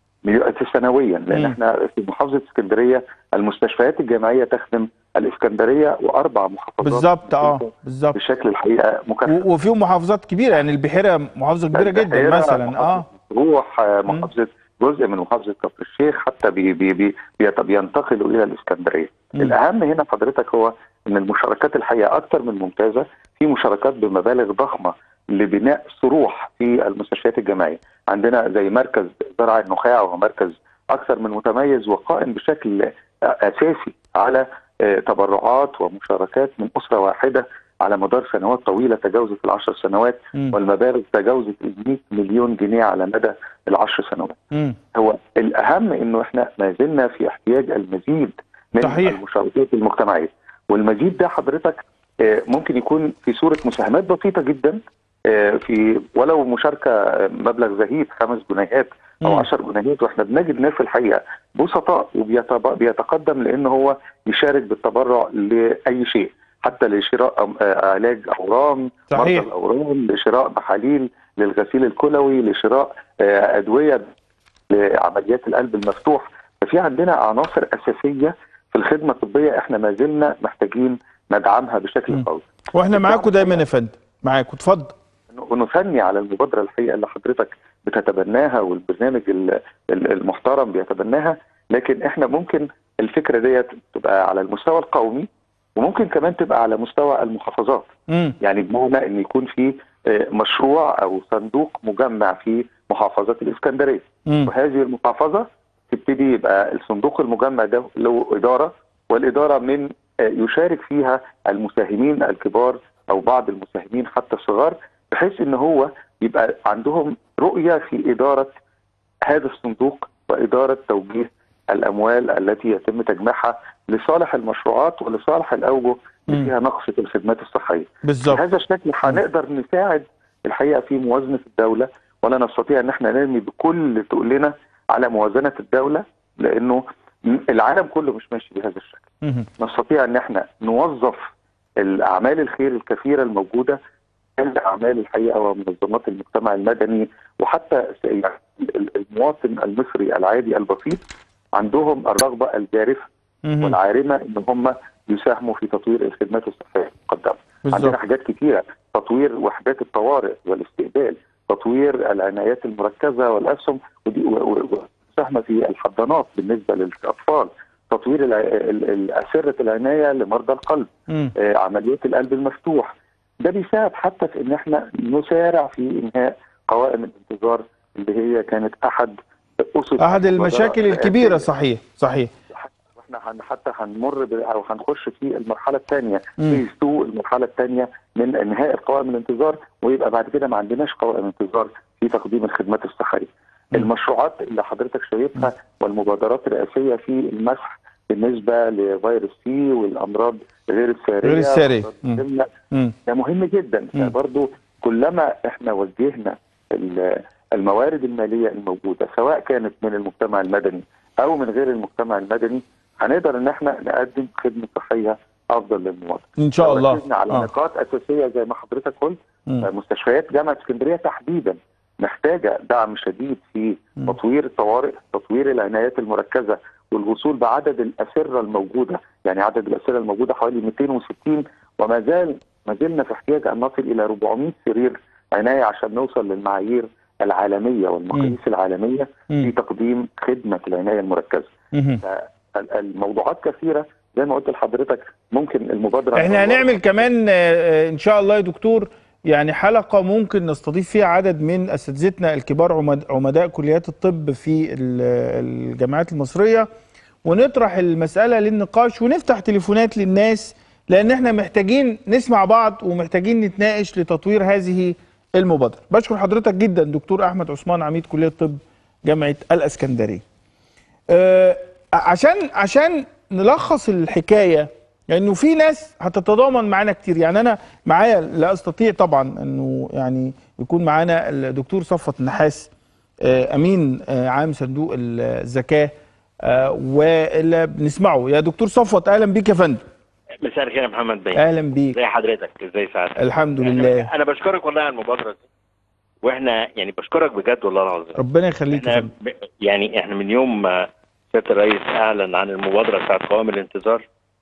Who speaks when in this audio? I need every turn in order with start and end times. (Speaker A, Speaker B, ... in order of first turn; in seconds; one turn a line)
Speaker A: 0.2-9.4
Speaker B: 6.8-8.2
Speaker B: 9.3-13.1
Speaker A: 11.7-44.4
Speaker B: 44.5-44.8
Speaker A: 44.9-74.1
Speaker B: 48.8-49.2
Speaker B: 69.1-69.5
Speaker A: 74.7-83.6
Speaker B: 82.1-84.9
Speaker A: 85.3-118.5
Speaker B: 98.1-98.3
Speaker B: 104.3-104.5
Speaker A: 119.3-141.2
Speaker B: 128.1-128.4
Speaker B: 139.2-139.5
Speaker A: 141.8-143.8
Speaker A: 144.4-151.0
Speaker A: 151.6-153.1
Speaker B: 153.4-153.8
Speaker A: 153.6-181.5
Speaker B: 157.7-158.0
Speaker B: 180.0-182.3
Speaker A: 182.5-202.5
Speaker B: 201.2-202.2
Speaker A: 203.1-247.0
Speaker B: 216.4-217.5
Speaker B: 241.7-242.0
Speaker B: 246.2-256.7
Speaker B: 257.2-270.2
Speaker B: 271.1-282.7
Speaker B: 283.2-289.8
Speaker C: 290.4-295.4
Speaker B: 291.3-292.0
Speaker B: 293.2-294.1
Speaker C: 296.2-298.2
Speaker B: 298.1-299.1
Speaker C: 298.7-304.0